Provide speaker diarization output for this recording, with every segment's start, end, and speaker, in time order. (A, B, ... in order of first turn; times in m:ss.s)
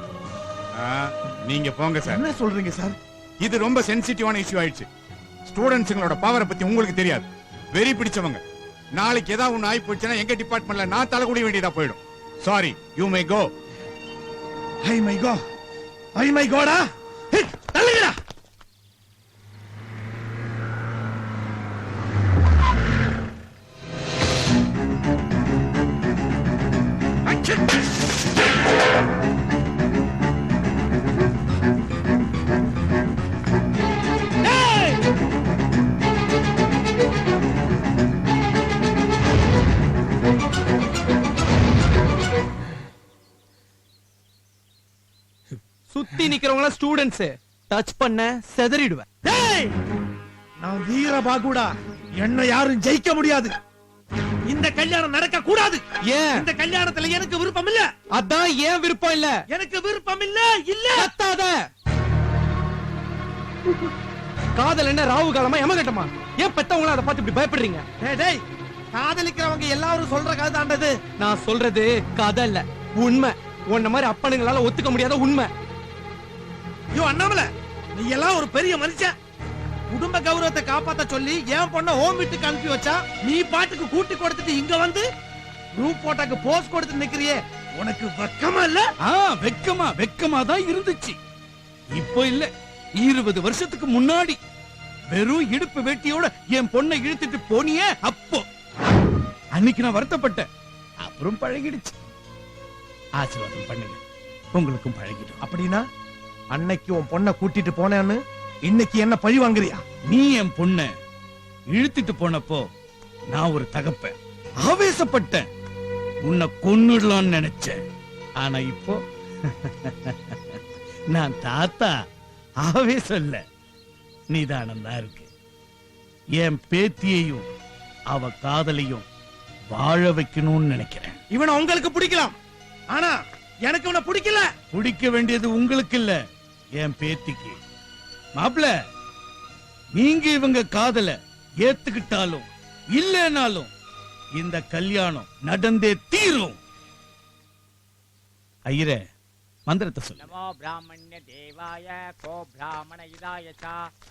0:00.8-0:02.2 A
0:02.1-0:02.9 B
0:03.4-0:04.9 A
0:05.5-0:08.4 A
0:09.0-0:13.5 A
0:14.8-0:15.4 B
0:16.2-0:16.8 B
0:17.3-0:18.1 B
0:34.5-0:34.9 B
0:45.9-0:49.0 C
0:49.2-0:49.7 B
0:50.6-0:53.5 B
0:54.5-0:55.8 B
0:56.1-0:56.4 C
0:56.4-0:57.8 B
0:58.2-0:59.4 C
0:59.5-1:01.1 B
1:01.0-1:01.7 C
1:04.5-1:07.8 C
1:08.0-1:08.4 B
1:08.9-1:10.9 B
1:11.2-1:15.5 C
1:16.9-1:19.1 B
1:19.9-1:25.0 B
1:25.8-1:28.8 B
1:29.0-1:31.2 D
1:32.0-1:34.4 D
1:35.1-1:38.4 D
1:39.6-1:40.5 D
1:41.0-1:41.9 D
1:43.2-1:44.0 D
1:44.5-1:45.4 D
1:45.4-1:45.8 B
1:46.5-1:49.8 B
1:50.1-1:50.9 D
1:51.7-1:52.6 D
1:53.3-1:55.4 D
1:56.3-1:57.8 D
1:58.4-2:00.6 D
2:01.1-2:01.9 D
2:02.6-2:03.4 D
2:04.3-2:05.3 D
2:06.4-2:07.4 D
2:08.1-2:09.0 D
2:09.7-2:11.2 D
2:11.3-2:12.3 B
2:12.9-2:14.5 B
2:14.7-2:16.2 D
2:16.8-2:17.6 D
2:18.4-2:18.7 D
2:19.9-2:23.7 D
2:24.4-2:26.6 D
2:28.7-2:29.0 D
2:29.7-2:30.3 D
2:30.4-2:33.7 E